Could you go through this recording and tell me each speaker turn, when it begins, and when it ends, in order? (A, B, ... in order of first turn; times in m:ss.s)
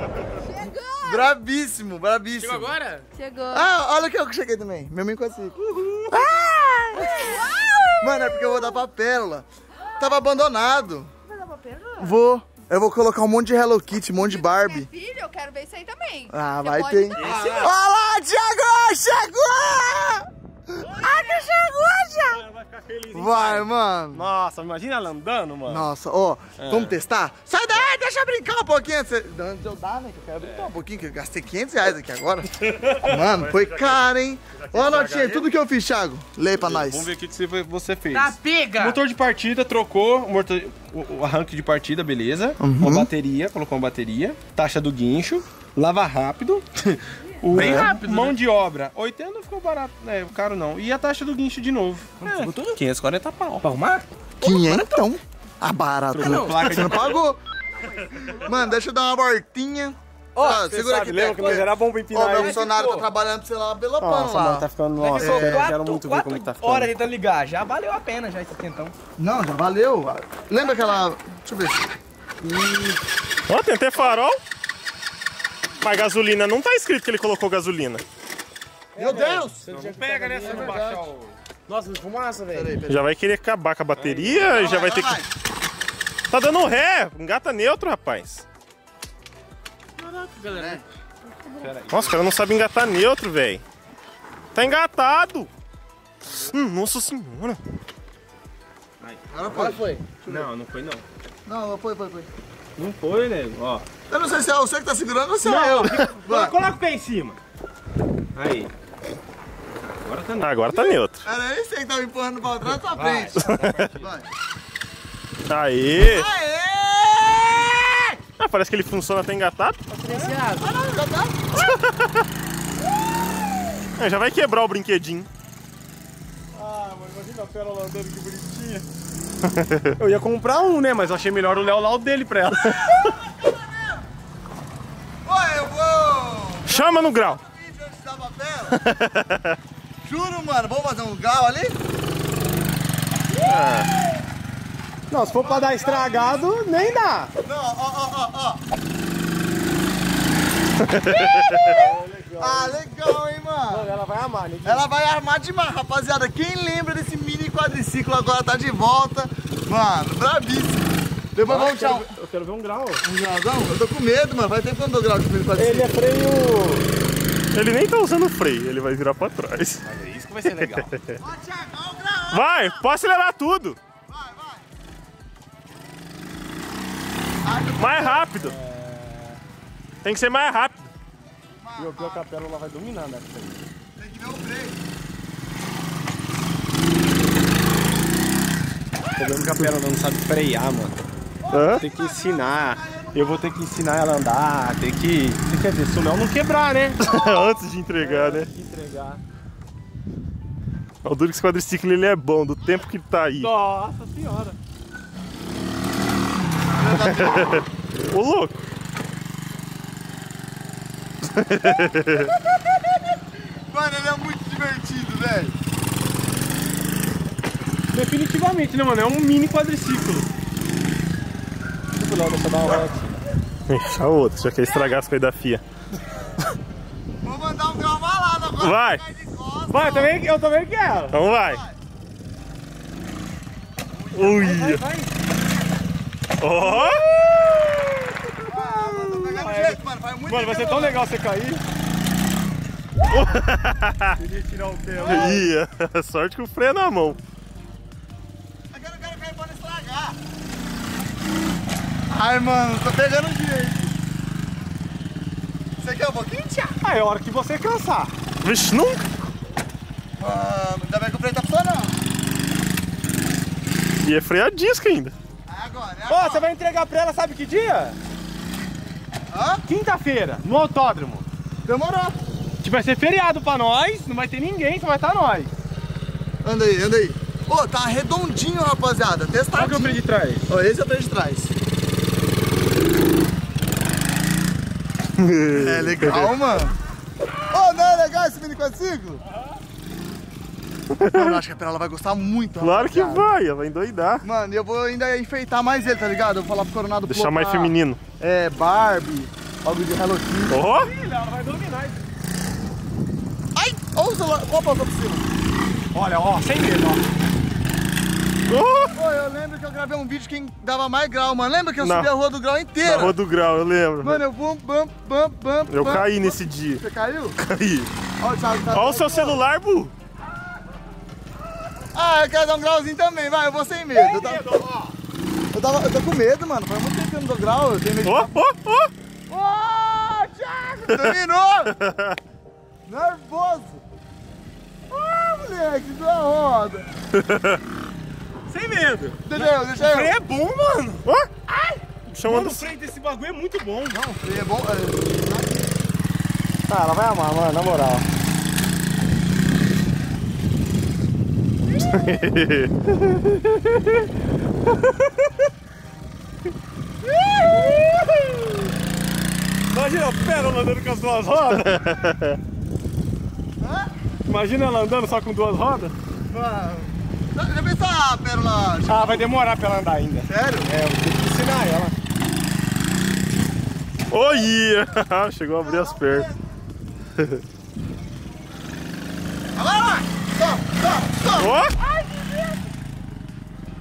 0:00.4-0:01.2 A
0:01.0-0:02.8 B
0:02.4-0:03.1 C
0:03.1-0:03.7 A
0:03.5-0:07.5 B
0:05.7-0:07.5 D
0:07.0-0:08.8 A
0:08.0-0:09.5 B
0:10.0-0:11.1 B
0:11.5-0:11.9 C
0:12.0-0:14.9 B
0:14.2-0:17.7 A
0:16.3-0:22.4 B
0:17.2-0:17.7 D
0:20.8-0:21.5 D
0:22.3-0:25.9 D
0:23.1-0:24.3 B
0:25.6-0:37.1 B
0:26.6-0:27.0 D
0:30.4-0:30.7 D
0:33.4-0:33.9 E
0:34.6-0:35.4 E
0:36.6-0:53.7 D
0:38.1-0:39.0 C
0:42.6-0:43.1 B
0:47.6-0:47.9 B
0:47.6-0:48.4 C
0:52.2-0:52.8 C
0:53.6-0:54.6 C
0:54.4-0:57.4 B
0:56.1-0:57.2 D
0:56.2-0:56.8 C
0:58.2-0:58.6 C
0:58.3-1:05.7 B
1:00.4-1:00.7 C
1:00.4-1:02.6 D
1:02.3-1:03.1 C
1:04.0-1:06.9 D
1:05.0-1:09.0 C
1:09.2-1:11.9 B
1:12.5-1:12.9 C
1:13.5-1:14.4 E
1:15.8-1:18.0 E
1:19.0-1:19.6 B
1:19.0-1:20.8 C
1:19.6-1:21.4 D
1:20.4-1:21.1 B
1:21.7-1:22.8 C
1:22.5-1:23.0 B
1:22.9-1:25.2 E
1:24.0-1:24.5 D
1:24.4-1:25.3 B
1:26.3-1:28.4 E
1:30.0-1:30.8 C
1:30.4-1:30.8 B
1:31.4-1:31.7 C
1:31.6-1:32.3 D
1:31.8-1:33.6 E
1:34.5-1:35.5 E
1:36.4-1:37.6 E
1:39.3-1:40.5 B
1:39.6-1:40.1 C
1:40.2-1:41.1 D
1:41.5-1:42.3 B
1:42.8-1:43.9 D
1:44.1-1:46.6 B
1:45.4-1:47.4 D
1:48.3-1:48.7 D
1:49.8-1:50.9 D
1:50.4-1:51.2 E
1:51.2-1:53.4 B
1:53.0-1:54.1 D
1:53.4-1:53.8 E
1:54.0-1:54.3 B
1:55.5-1:56.3 E
1:56.0-1:58.2 B
1:58.4-1:59.8 E
1:59.9-2:00.6 D
2:00.1-2:00.6 C
2:00.6-2:01.7 B
2:01.6-2:02.2 E
2:04.0-2:05.3 E
2:06.5-2:08.9 D
2:09.6-2:09.8 E
2:10.0-2:13.0 D
2:12.6-2:14.0 B
2:15.2-2:18.8 B
2:16.7-2:17.4 E
2:20.0-2:21.8 B
2:23.5-2:23.9 E
2:25.1-2:27.3 D
2:25.3-2:26.9 B
2:27.4-2:28.6 B
2:31.6-2:32.8 D
2:32.4-2:34.0 B
2:33.7-2:34.9 D
2:34.6-2:42.1 B
2:41.4-2:43.0 D
2:43.0-2:45.9 B
2:45.6-2:46.9 D
2:47.5-2:49.8 E
2:49.8-2:51.0 D
2:51.2-2:52.8 B
2:52.3-2:53.8 E
2:54.1-2:54.6 B
2:57.4-2:58.3 B
2:57.8-2:58.6 E
2:58.4-2:59.4 D
3:00.0-3:00.9 E
3:01.6-3:02.2 B
3:01.8-3:03.6 D
3:04.0-3:04.8 B
3:09.2-3:11.0 D
3:11.4-3:13.4 B
3:11.5-3:11.8 E
3:11.8-3:17.0 D
3:17.0-3:18.5 E
3:18.0-3:19.2 D
3:21.0-3:23.5 E
3:23.4-3:24.6 D
3:26.7-3:27.5 B
3:27.0-3:28.6 E
3:31.3-3:32.3 E
3:33.6-3:35.6 B
3:37.9-3:40.3 D
3:42.0-3:43.2 D
3:43.7-3:45.6 E
3:47.2-3:50.2 B
3:48.6-3:49.0 E
3:49.7-3:51.2 D
3:51.1-3:51.6 E
3:51.3-3:51.8 B
3:54.2-3:54.8 E
3:54.2-3:55.1 D
3:56.4-3:57.1 E
3:56.6-4:01.6 D
3:58.5-4:01.0 B
4:03.1-4:04.2 E
4:04.2-4:05.5 D
4:05.0-4:05.4 B
4:05.0-4:07.2 E
4:08.7-4:10.2 B
4:12.1-4:13.9 B
4:15.8-4:16.8 B
4:16.8-4:18.1 D
4:18.4-4:19.0 E
4:20.2-4:22.0 B
4:24.0-4:25.2 E
4:25.5-4:26.5 B
4:26.1-4:28.0 D
4:29.3-4:29.6 B
4:29.6-4:31.3 D
4:31.6-4:32.2 B
4:32.6-4:35.5 D
4:36.4-4:41.5 B
4:39.5-4:40.5 D
4:45.2-4:46.3 E
4:45.5-4:46.8 B
4:47.5-4:49.2 B
4:51.0-4:51.4 E
4:51.1-4:53.3 B
4:52.6-4:54.2 E
4:54.2-5:00.6 B
4:57.1-4:58.0 E
5:00.5-5:00.9 E
5:00.7-5:02.0 D
5:03.6-5:05.3 B
5:05.9-5:07.0 D
5:08.5-5:09.0 E
5:08.9-5:13.2 B
5:11.8-5:12.1 E
5:12.9-5:14.2 E
5:14.0-5:17.4 B
5:15.7-5:16.8 E
5:17.4-5:17.9 E
5:18.2-5:19.4 B
5:18.7-5:19.9 E
5:21.9-5:24.6 B
5:23.9-5:25.0 D
5:25.5-5:28.4 B
5:28.0-5:28.9 E
5:29.3-5:31.8 B
5:31.8-5:32.2 E
5:32.9-5:33.8 B
5:34.9-5:36.9 B
5:37.2-5:37.6 E
5:38.5-5:41.0 D
5:39.2-5:40.2 B
5:41.0-5:41.3 E
5:42.1-5:42.7 E
5:42.2-5:44.0 D
5:43.9-5:45.6 B
5:46.7-5:48.1 D
5:52.0-5:52.8 E
5:57.2-5:58.7 D
5:59.7-6:02.0 D
6:02.0-6:02.4 E
6:03.6-6:03.9 B
6:04.3-6:05.9 D
6:06.3-6:09.3 B
6:08.9-6:12.0 D
6:10.3-6:10.7 B
6:14.1-6:16.3 E
6:15.6-6:16.4 B
6:19.6-6:22.6 B
6:21.4-6:21.8 E